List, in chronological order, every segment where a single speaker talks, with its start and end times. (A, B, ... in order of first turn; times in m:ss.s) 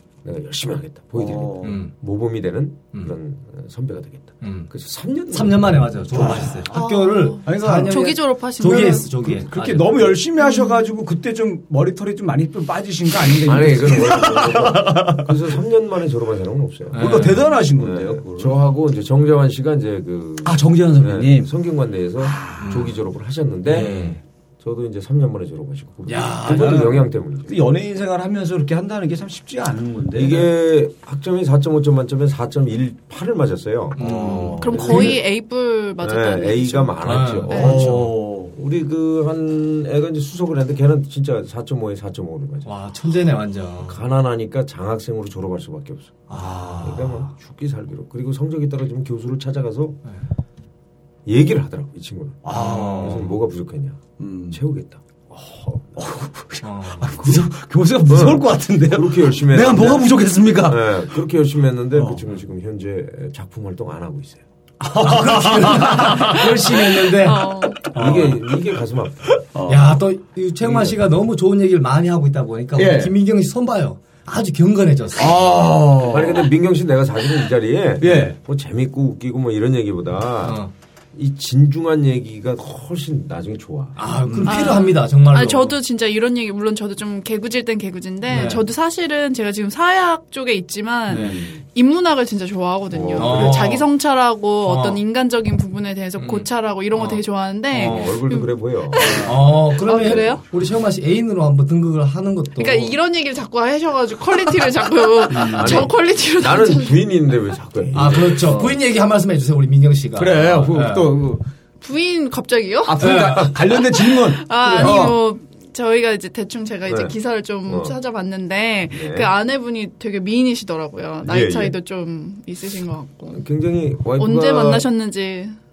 0:00.2-0:06.5 A
0:01.1-0:01.8 B
0:01.6-0:01.9 C
0:04.4-0:04.7 C
0:05.3-0:10.2 C
0:06.1-0:08.1 B
0:06.7-0:09.1 D
0:09.2-0:15.3 B
0:10.4-0:10.9 D
0:13.4-0:27.6 A
0:16.9-0:17.6 C
0:16.9-0:18.5 B
0:20.4-0:21.5 B
0:22.2-0:22.9 B
0:22.6-0:22.9 C
0:23.7-0:24.2 B
0:23.7-0:24.2 C
0:26.1-0:27.0 C
0:26.4-0:30.5 B
0:30.1-0:35.2 A
0:34.0-0:35.2 C
0:34.0-0:35.2 B
0:34.6-0:37.8 D
0:36.0-0:42.7 A
0:37.0-0:38.2 C
0:37.5-0:38.5 B
0:42.6-0:44.0 C
0:43.8-0:46.3 A
0:46.3-0:47.2 C
0:46.3-0:47.2 B
0:46.8-0:50.0 A
0:51.2-0:56.0 A
0:52.4-0:53.3 B
0:52.5-0:53.3 C
0:54.2-0:54.6 B
0:56.0-1:00.9 B
0:56.6-0:57.4 C
0:58.0-1:00.1 A
1:00.6-1:04.4 A
1:01.9-1:02.2 B
1:04.8-1:07.2 B
1:04.9-1:08.4 C
1:07.1-1:07.9 D
1:07.9-1:09.4 A
1:08.0-1:08.4 B
1:09.3-1:10.0 B
1:09.7-1:15.5 C
1:10.6-1:10.9 B
1:12.8-1:13.1 B
1:15.2-1:16.5 B
1:16.0-1:20.6 A
1:18.0-1:18.4 B
1:20.4-1:20.7 C
1:21.1-1:24.0 A
1:24.0-1:25.8 C
1:24.2-1:24.8 B
1:24.4-1:40.4 D
1:28.3-1:28.6 C
1:31.1-1:31.5 B
1:32.9-1:33.8 A
1:33.2-1:33.9 C
1:34.6-1:35.0 C
1:36.2-1:37.2 C
1:37.7-1:38.2 C
1:37.7-1:40.4 A
1:39.0-1:39.4 B
1:39.2-1:42.9 C
1:42.6-1:47.0 D
1:45.3-1:45.9 B
1:45.4-1:48.6 A
1:47.9-1:51.2 C
1:48.2-1:48.8 B
1:50.2-1:51.4 B
1:51.8-2:03.4 D
1:52.8-1:55.2 B
1:53.0-1:53.5 C
1:56.9-1:57.1 A
1:57.6-1:58.0 A
1:58.9-1:59.3 A
2:01.2-2:01.8 A
2:03.3-2:04.9 A
2:04.2-2:05.6 D